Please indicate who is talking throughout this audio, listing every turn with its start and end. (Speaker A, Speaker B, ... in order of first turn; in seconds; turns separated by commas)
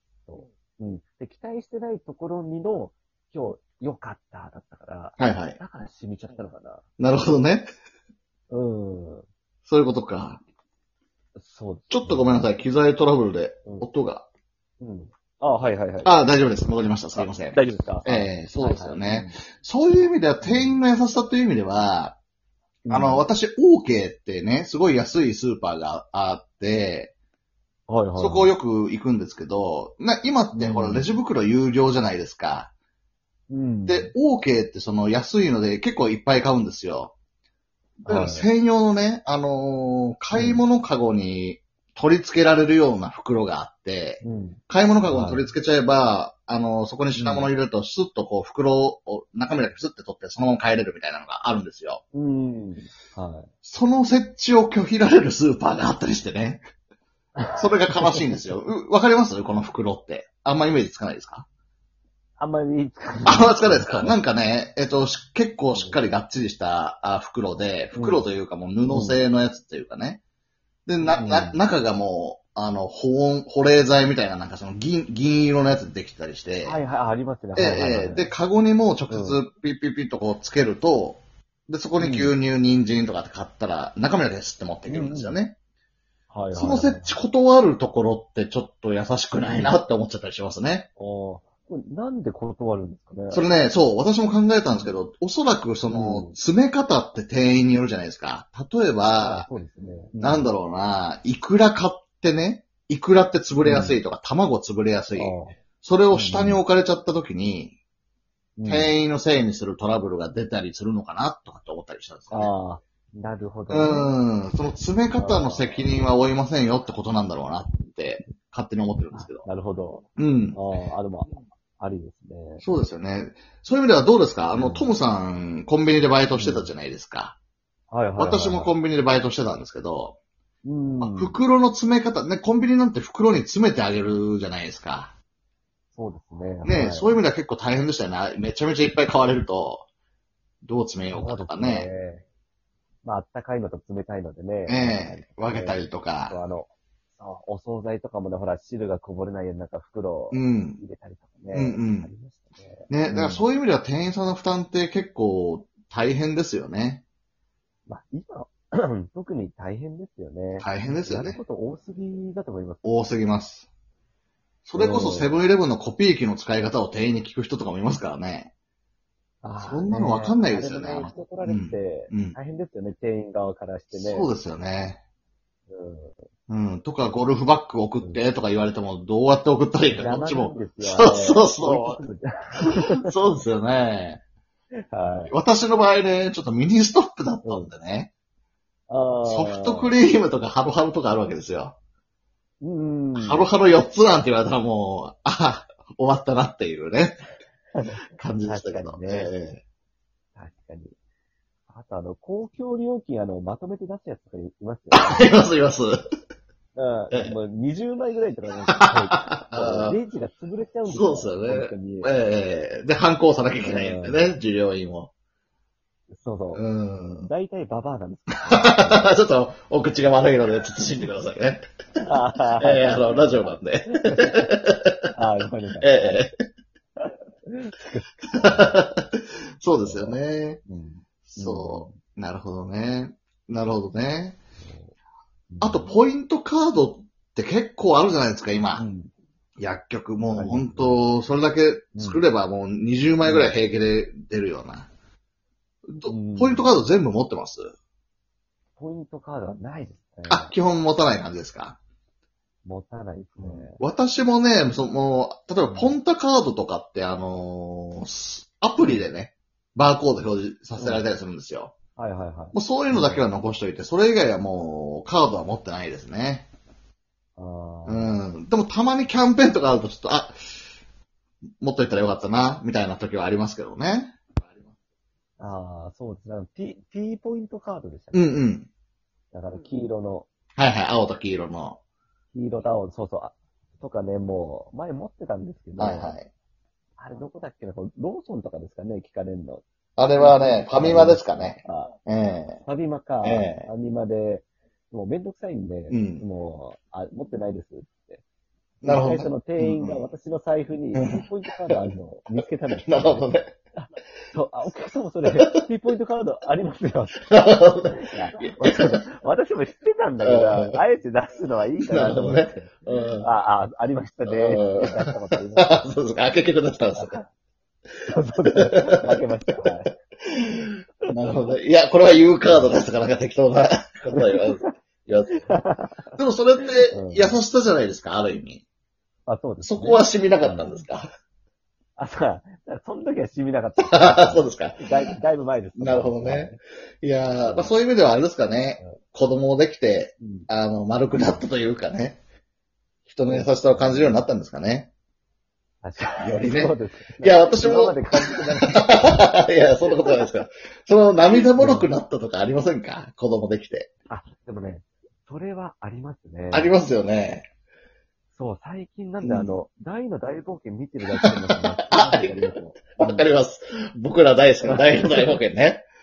Speaker A: 0.3-7.4, Speaker B: 5.2-5.6, Speaker B: 7.0-7.7, Speaker A: 8.5-9.3, Speaker B: 9.7-10.4, Speaker A: 11.4-12.4, Speaker B: 11.9-14.3, Speaker A: 14.8-16.1, Speaker B: 16.0-22.2, Speaker A: 17.2-19.4, Speaker A: 20.4-20.8, Speaker A: 22.9-23.3, Speaker B: 22.9-27.1, Speaker A: 27.9-28.5, Speaker B: 28.2-32.7, Speaker A: 30.5-31.1, Speaker A: 33.5-34.1, Speaker B: 33.9-37.1, Speaker B: 38.0-52.0, Speaker A: 38.1-38.5, Speaker A: 40.3-40.6, Speaker A: 44.2-45.5, Speaker A: 47.2-47.5, Speaker A: 52.1-53.5, Speaker B: 53.6-56.7, Speaker A: 57.4-58.2, Speaker B: 57.6-61.5, Speaker A: 62.4-64.2, Speaker B: 63.3-70.2, Speaker A: 68.0-68.3, Speaker A: 68.9-69.2, Speaker B: 70.9-76.8, Speaker A: 71.0-71.6, Speaker A: 76.6-78.3, Speaker B: 77.6-85.5, Speaker A: 79.1-79.4, Speaker A: 82.0-82.3, Speaker A: 84.9-85.4, Speaker A: 86.3-87.2, Speaker B: 86.5-90.9, Speaker A: 91.0-93.5, Speaker B: 93.3-99.5, Speaker A: 95.9-96.4, Speaker A: 99.2-100.5, Speaker B: 100.2-107.7, Speaker A: 103.6-104.0, Speaker A: 105.2-105.6, Speaker A: 106.1-106.6, Speaker A: 108.6-108.9, Speaker B: 108.7-112.5, Speaker A: 112.3-114.1, Speaker B: 113.7-119.5, Speaker A: 115.2-115.9, Speaker A: 119.1-122.6, Speaker B: 120.2-120.6, Speaker B: 122.6-127.4, Speaker A: 124.5-124.9, Speaker A: 126.3-126.7, Speaker A: 127.9-128.7, Speaker B: 128.2-130.2, Speaker A: 130.6-131.4, Speaker B: 131.0-135.1, Speaker A: 135.9-137.2, Speaker B: 136.6-139.9, Speaker B: 140.6-141.9, Speaker A: 141.1-142.2, Speaker A: 143.0-153.5, Speaker B: 144.7-146.4, Speaker B: 150.3-150.8, Speaker B: 151.5-152.1, Speaker B: 152.9-157.0, Speaker A: 157.9-162.8, Speaker B: 160.6-161.4, Speaker B: 162.8-163.7, Speaker B: 164.7-168.5, Speaker A: 164.8-165.3, Speaker A: 169.4-174.3, Speaker B: 169.6-172.4, Speaker B: 173.9-175.0, Speaker A: 175.7-176.2, Speaker B: 176.5-182.0, Speaker A: 179.9-183.4, Speaker B: 182.6-184.2, Speaker A: 184.9-185.3, Speaker B: 185.3-188.1, Speaker A: 187.4-187.7, Speaker A: 188.9-189.9, Speaker B: 189.2-191.8, Speaker A: 192.6-193.5, Speaker B: 193.2-197.2, Speaker A: 197.8-199.3, Speaker B: 198.2-199.6, Speaker A: 200.4-201.0, Speaker A: 201.7-205.3, Speaker B: 204.9-205.9, Speaker A: 206.8-212.2, Speaker B: 208.7-210.0, Speaker B: 210.9-215.1, Speaker A: 213.6-214.3, Speaker A: 216.2-216.7, Speaker B: 216.5-217.3, Speaker A: 217.2-219.2, Speaker B: 218.5-221.6, Speaker A: 222.0-224.5, Speaker B: 222.6-225.1, Speaker A: 225.1-226.2, Speaker B: 225.8-226.3, Speaker A: 227.0-228.8, Speaker B: 228.3-230.6, Speaker A: 229.8-232.0, Speaker B: 231.3-234.4, Speaker A: 234.6-234.9, Speaker A: 235.5-236.0, Speaker B: 235.6-238.8, Speaker A: 238.8-239.1, Speaker B: 239.6-244.9, Speaker A: 240.3-241.0, Speaker A: 242.0-242.2, Speaker A: 243.2-243.6, Speaker B: 245.9-247.7, Speaker A: 246.1-246.7, Speaker A: 248.8-250.5, Speaker B: 250.3-251.8, Speaker A: 252.7-253.8, Speaker B: 253.4-261.7, Speaker A: 255.7-256.0, Speaker A: 258.8-259.1, Speaker A: 260.8-261.1, Speaker A: 262.0-263.2, Speaker B: 262.5-266.5, Speaker A: 267.4-268.2, Speaker B: 267.9-270.4, Speaker B: 271.6-274.2, Speaker A: 275.4-278.4, Speaker B: 278.1-278.7, Speaker A: 279.3-280.3, Speaker B: 280.6-281.8, Speaker A: 282.3-286.2, Speaker B: 285.8-286.3, Speaker A: 287.0-289.6, Speaker B: 290.0-292.6, Speaker A: 290.1-292.0, Speaker A: 292.6-298.2, Speaker B: 293.2-293.7, Speaker B: 295.9-296.2, Speaker B: 298.8-300.0, Speaker A: 298.8-307.2, Speaker B: 301.0-301.2, Speaker B: 302.9-303.5, Speaker B: 305.4-305.7, Speaker B: 307.2-309.0, Speaker A: 307.9-315.9, Speaker B: 310.2-310.8, Speaker B: 311.8-313.3, Speaker B: 314.3-317.2, Speaker A: 317.0-317.3, Speaker A: 318.1-319.9, Speaker B: 318.6-319.0, Speaker B: 320.3-325.5, Speaker A: 321.1-321.5, Speaker A: 322.4-322.8, Speaker A: 324.1-324.7, Speaker A: 325.4-326.1, Speaker B: 326.2-328.6, Speaker A: 326.9-327.4, Speaker A: 329.3-330.8, Speaker B: 329.6-331.1, Speaker A: 332.0-336.6, Speaker B: 333.8-334.9, Speaker B: 335.8-342.2, Speaker A: 337.4-337.8, Speaker A: 340.2-340.5, Speaker A: 341.1-341.4, Speaker B: 343.1-344.9, Speaker A: 343.2-344.3, Speaker A: 345.8-349.3, Speaker B: 346.3-353.9, Speaker A: 349.9-350.3, Speaker A: 351.6-351.9, Speaker A: 354.1-356.8, Speaker B: 356.5-357.5, Speaker A: 358.3-363.3, Speaker B: 359.2-359.6, Speaker B: 361.9-365.9, Speaker A: 364.6-365.4